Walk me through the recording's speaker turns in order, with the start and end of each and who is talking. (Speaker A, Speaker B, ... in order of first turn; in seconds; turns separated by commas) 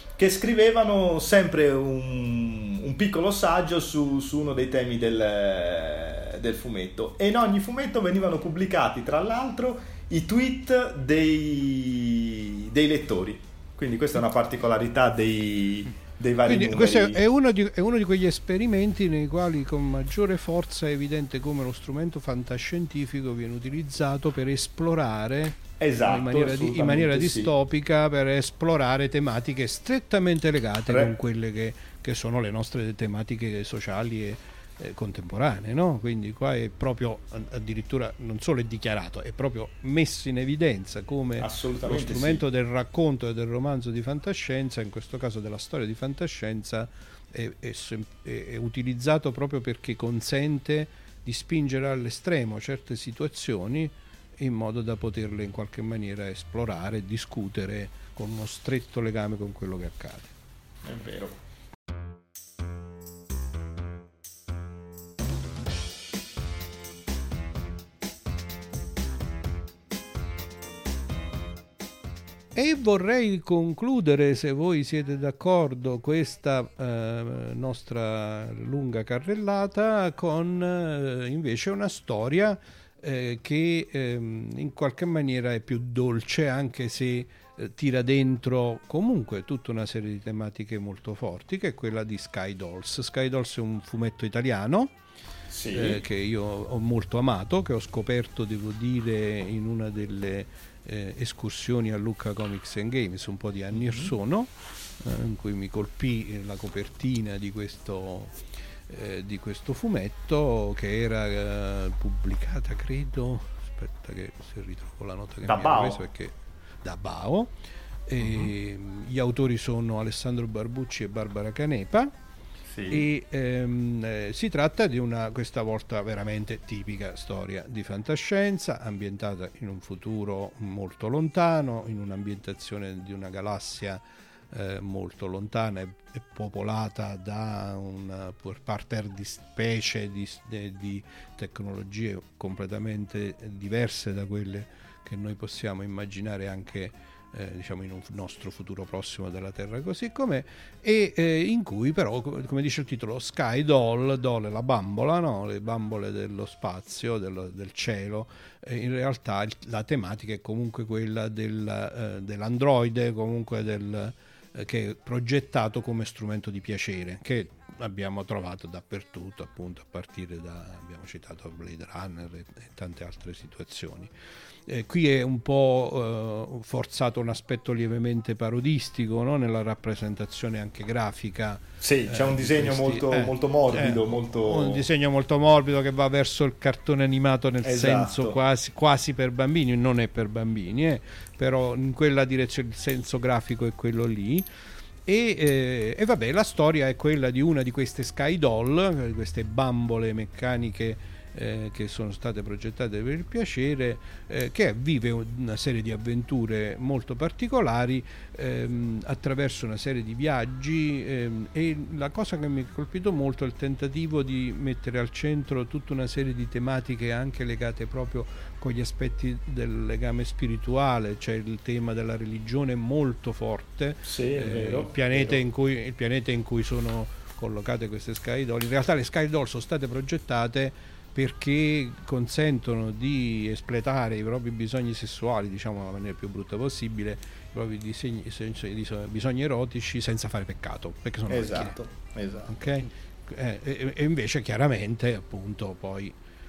Speaker A: 0.2-17.2, Speaker B: 16.4-60.4, Speaker A: 25.8-27.5, Speaker A: 30.9-31.1, Speaker A: 41.4-42.4, Speaker A: 60.8-61.4, Speaker B: 72.5-94.9, Speaker A: 95.5-96.0, Speaker B: 95.7-117.5, Speaker A: 103.7-104.1, Speaker A: 115.5-116.0, Speaker B: 118.1-122.1, Speaker A: 118.2-118.5, Speaker A: 122.7-123.1, Speaker B: 122.9-174.1, Speaker B: 174.7-194.5, Speaker A: 181.8-184.8, Speaker A: 187.6-188.4, Speaker B: 195.1-241.8, Speaker A: 224.1-225.4, Speaker A: 241.3-242.9, Speaker B: 242.5-246.2